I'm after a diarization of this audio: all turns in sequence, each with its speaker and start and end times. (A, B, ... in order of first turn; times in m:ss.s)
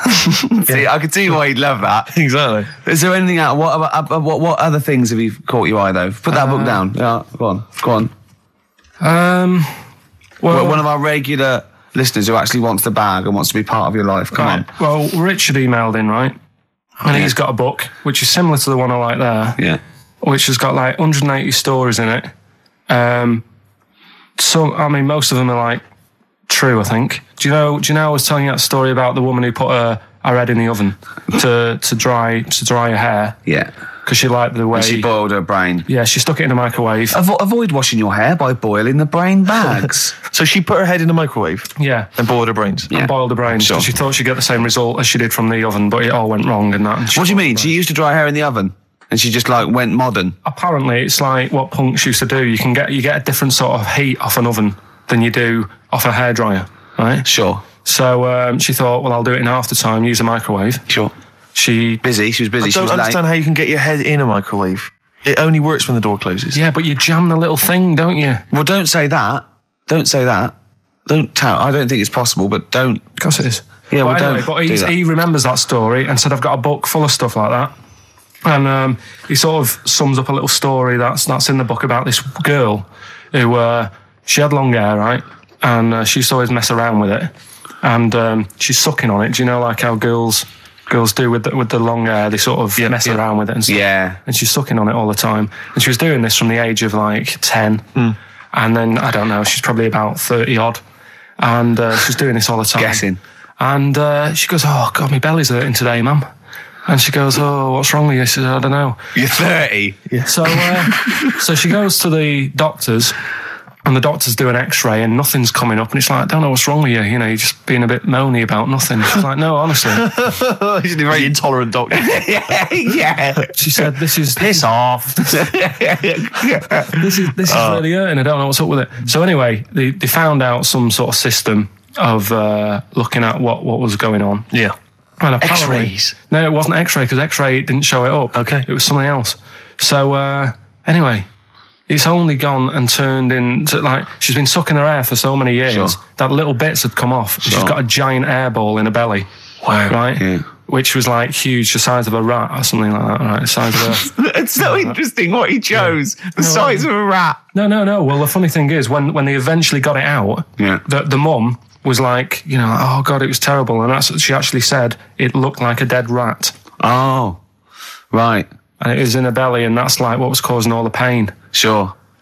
0:00.2-0:02.1 A
0:02.1-0:02.7 B
0:02.8-0:08.1 A
0:06.3-0:06.8 C
0:09.0-0:09.8 C
0:10.4-0:10.8 C
0:10.5-0:14.7 A
0:14.3-0:16.4 C
0:17.0-0:19.6 C
0:20.2-0:22.3 C
0:22.9-0:23.4 C
0:24.4-0:25.8 C
0:26.5-0:33.4 C
0:34.0-0:35.1 C
0:34.7-0:35.9 A
0:35.9-0:37.2 C
0:37.1-0:40.2 A
0:40.3-0:42.9 B
0:41.8-0:42.1 C
0:42.9-0:47.7 C
0:42.9-0:43.9 A
0:47.1-0:50.4 A
0:50.4-0:57.3 C
0:57.2-0:57.6 A
0:57.8-1:00.8 C
1:01.6-1:02.0 C
1:02.0-1:03.2 A
1:02.6-1:06.6 B
1:06.5-1:08.4 C
1:08.5-1:10.6 A
1:11.1-1:13.0 A
1:13.2-1:17.7 C
1:13.9-1:14.9 A
1:18.4-1:27.3 C
1:27.8-1:37.9 C
1:32.8-1:33.2 B
1:33.7-1:34.2 A
1:38.5-1:40.8 C
1:41.4-1:43.0 C
1:42.8-1:43.2 A
1:43.6-1:46.3 C
1:46.9-1:49.0 C
1:49.2-1:50.0 A
1:50.2-1:53.2 C
1:50.9-1:51.3 A
1:53.8-2:00.1 C
1:59.9-2:02.2 B
2:00.9-2:01.3 A
2:01.9-2:03.5 A
2:03.5-2:04.7 C
2:04.4-2:05.6 B
2:05.2-2:07.1 A
2:06.9-2:14.5 C
2:07.5-2:07.8 B
2:15.2-2:21.3 C
2:15.4-2:16.1 B
2:18.3-2:18.6 B
2:21.9-2:29.3 C
2:25.7-2:26.0 A
2:27.4-2:27.7 A
2:29.6-2:30.0 B
2:29.9-2:35.0 C
2:30.2-2:30.4 A
2:34.0-2:37.4 A
2:36.4-2:36.9 C
2:37.5-2:46.5 C
2:40.6-2:40.8 A
2:46.8-2:47.4 A
2:48.1-2:48.5 A
2:48.8-2:51.4 C
2:51.5-2:51.9 A